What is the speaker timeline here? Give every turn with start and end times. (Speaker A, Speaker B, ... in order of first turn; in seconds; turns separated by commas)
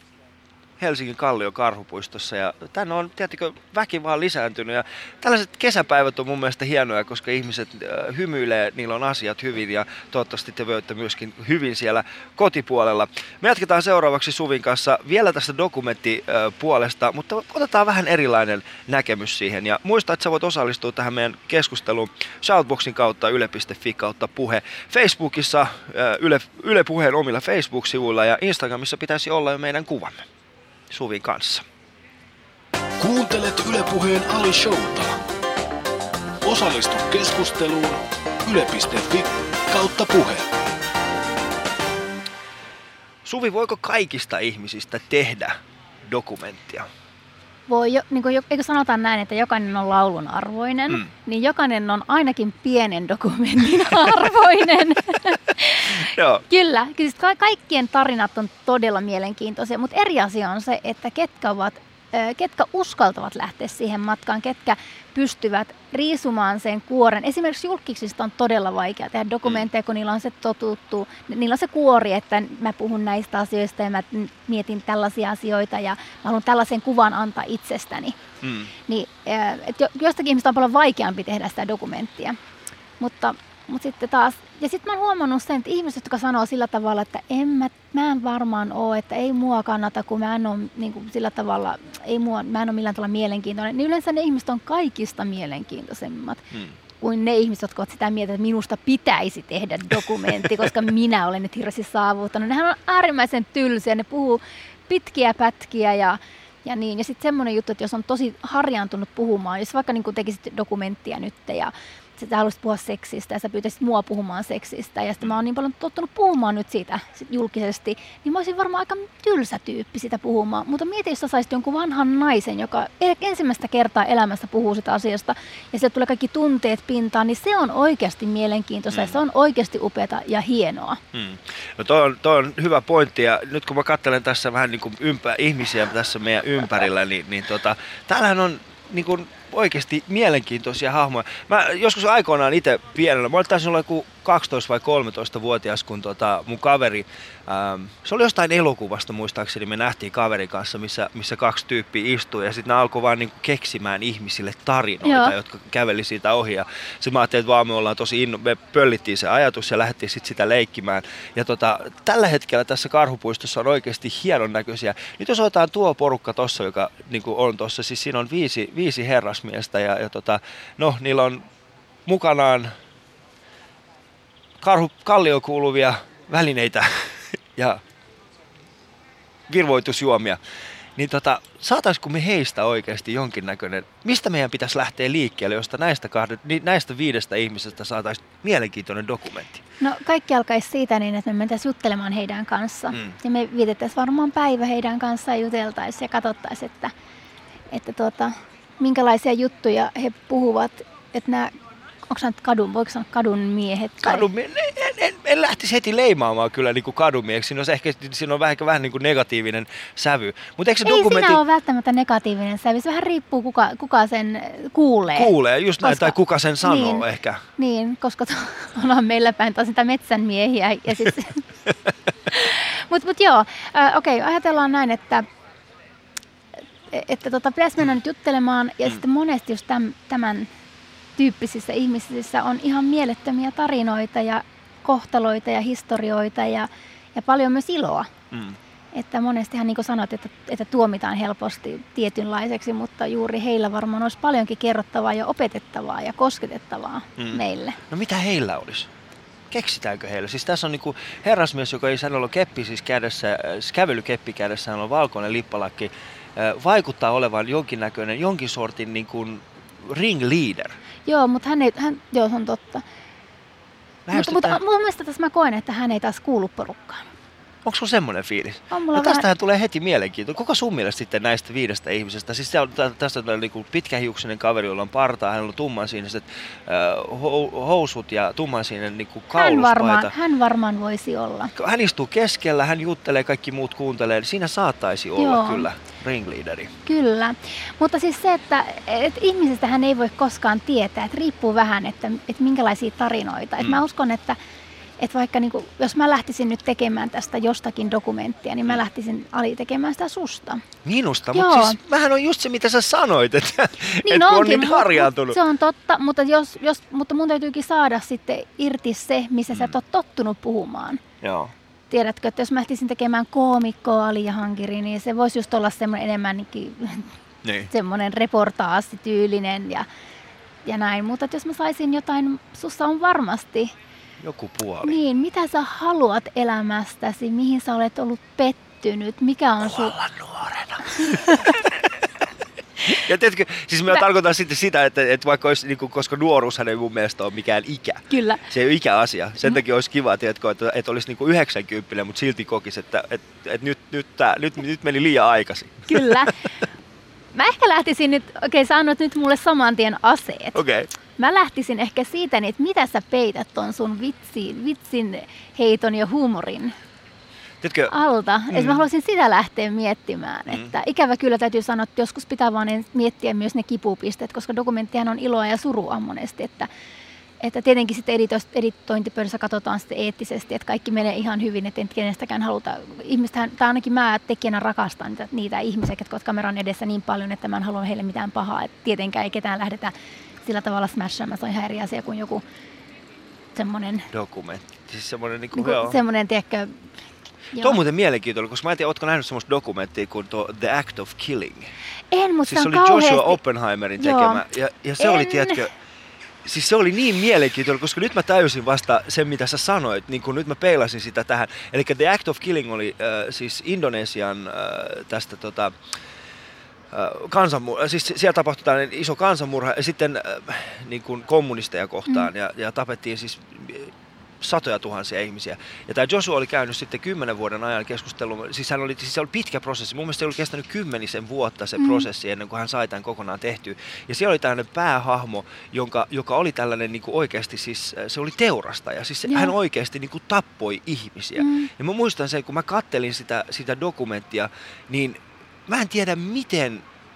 Speaker A: 0.8-30.3, Speaker A: 30.9-31.7, Speaker B: 33.0-35.2, Speaker B: 36.4-40.5, Speaker A: 43.2-46.9, Speaker C: 47.7-78.2, Speaker A: 56.0-56.4, Speaker A: 78.4-78.7, Speaker C: 78.9-82.4, Speaker C: 83.0-96.5, Speaker C: 97.0-131.0, Speaker A: 128.9-129.2, Speaker A: 131.1-171.4, Speaker C: 155.0-155.3, Speaker A: 172.1-172.7, Speaker A: 174.6-177.8, Speaker A: 179.5-180.4, Speaker A: 181.0-189.6, Speaker C: 189.8-196.9, Speaker C: 197.7-201.5, Speaker C: 202.1-204.3, Speaker A: 204.0-211.4, Speaker C: 210.8-217.1, Speaker A: 215.2-217.4, Speaker C: 217.6-221.4, Speaker C: 222.3-225.3, Speaker C: 226.9-230.5, Speaker C: 231.2-238.1, Speaker A: 238.3-238.6, Speaker C: 238.9-247.8, Speaker A: 247.2-248.9, Speaker A: 249.5-260.8, Speaker C: 261.1-262.8, Speaker A: 264.1-264.6, Speaker C: 264.1-267.1, Speaker A: 267.6-280.1, Speaker C: 268.7-269.3, Speaker C: 279.3-281.5, Speaker A: 281.6-286.7, Speaker C: 285.2-285.7, Speaker C: 286.9-294.4, Speaker C: 295.0-300.6, Speaker A: 300.8-305.4, Speaker C: 301.3-301.8, Speaker C: 304.1-311.0, Speaker A: 311.2-311.5, Speaker C: 311.9-317.1, Speaker A: 317.4-317.7, Speaker C: 317.7-319.9, Speaker C: 320.6-323.7, Speaker A: 324.2-325.0, Speaker C: 324.8-329.9, Speaker A: 329.6-331.8, Speaker C: 331.0-331.5, Speaker A: 332.9-346.3, Speaker C: 338.1-338.4, Speaker C: 345.9-346.4, Speaker C: 347.3-350.6, Speaker A: 350.6-350.9, Speaker C: 351.2-356.7, Speaker A: 357.6-357.9, Speaker C: 357.9-366.7, Speaker A: 358.5-358.8, Speaker C: 367.4-379.9, Speaker C: 380.4-382.4, Speaker C: 383.6-384.1, Speaker A: 384.1-386.0, Speaker C: 385.5-386.8, Speaker C: 387.5-387.8, Speaker A: 387.6-391.7, Speaker C: 392.1-393.4, Speaker A: 392.5-395.7, Speaker C: 394.0-394.4, Speaker C: 395.0-395.7, Speaker A: 396.4-405.8, Speaker A: 406.9-436.8, Speaker C: 421.8-422.1, Speaker C: 429.3-429.5, Speaker C: 431.4-431.7